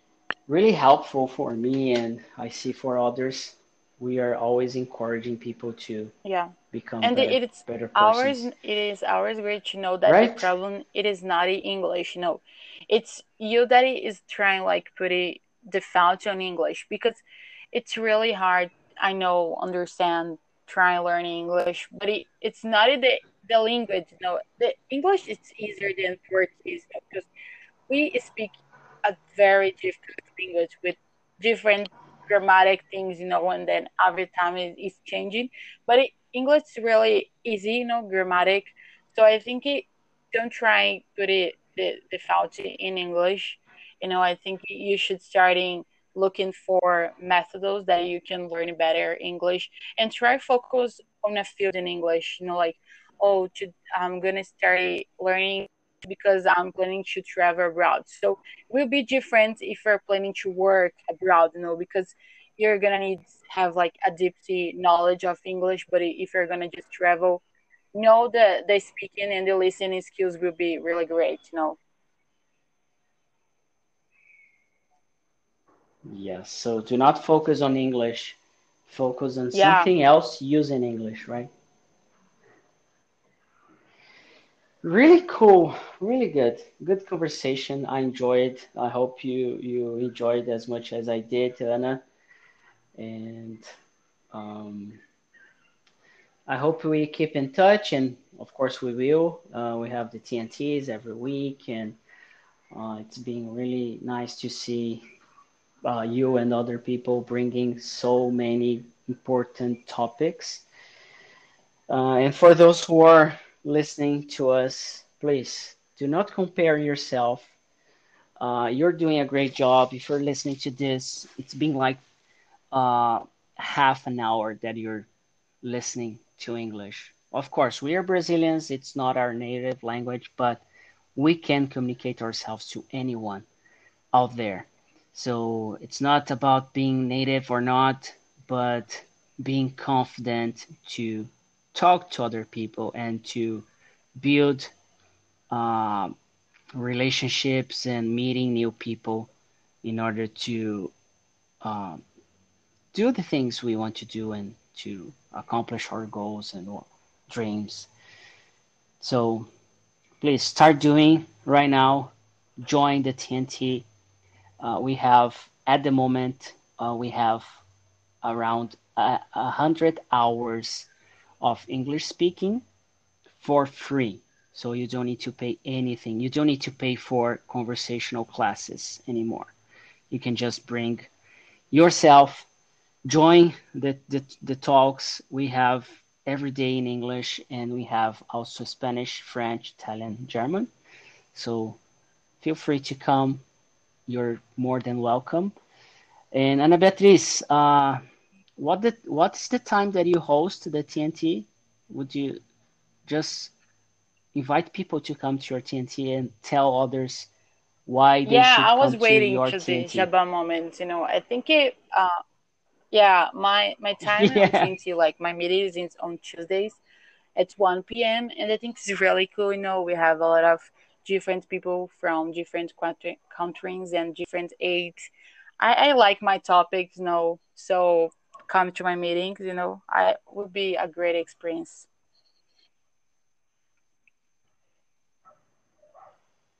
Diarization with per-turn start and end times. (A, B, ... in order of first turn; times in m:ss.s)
0:00.5-0:06.1 A
0:06.2-0:17.2 B
0:06.7-0:08.5 A
0:10.0-0:10.5 A
0:17.7-0:27.3 B
0:27.9-1:07.4 B
1:07.9-1:11.8 B
1:16.0-1:21.5 A
1:19.5-1:19.9 B
1:24.8-1:32.0 A
1:33.0-1:33.6 A
1:34.3-1:35.0 A
1:36.5-1:42.0 A
1:42.7-1:45.0 A
1:45.8-1:50.6 A
1:51.9-1:57.5 A
1:58.4-2:02.0 A
2:02.7-2:05.1 A
2:05.6-2:13.5 A
2:14.1-2:23.7 A
2:24.2-2:24.7 A
2:25.5-2:26.2 A
2:26.8-2:29.3 A
2:29.8-2:30.9 A
2:31.6-2:32.0 A
2:32.9-2:37.9 A
2:39.0-2:39.5 A
2:40.2-2:43.9 A
2:44.6-2:47.6 A
2:48.2-2:50.9 A
2:51.4-2:52.6 A
2:53.4-2:59.5 A
3:00.1-3:01.1 A
3:01.7-3:02.5 A
3:03.0-3:10.7 A
3:11.3-3:11.8 A
3:12.4-3:13.4 A
3:14.1-3:15.5 A
3:16.3-3:18.0 A
3:18.6-3:22.4 A
3:23.0-3:23.5 A
3:24.3-3:27.3 A
3:27.9-3:30.1 A
3:28.2-3:32.1 B
3:32.9-3:36.8 B
3:34.0-3:34.7 A
3:37.4-3:45.0 B
3:45.6-3:51.9 B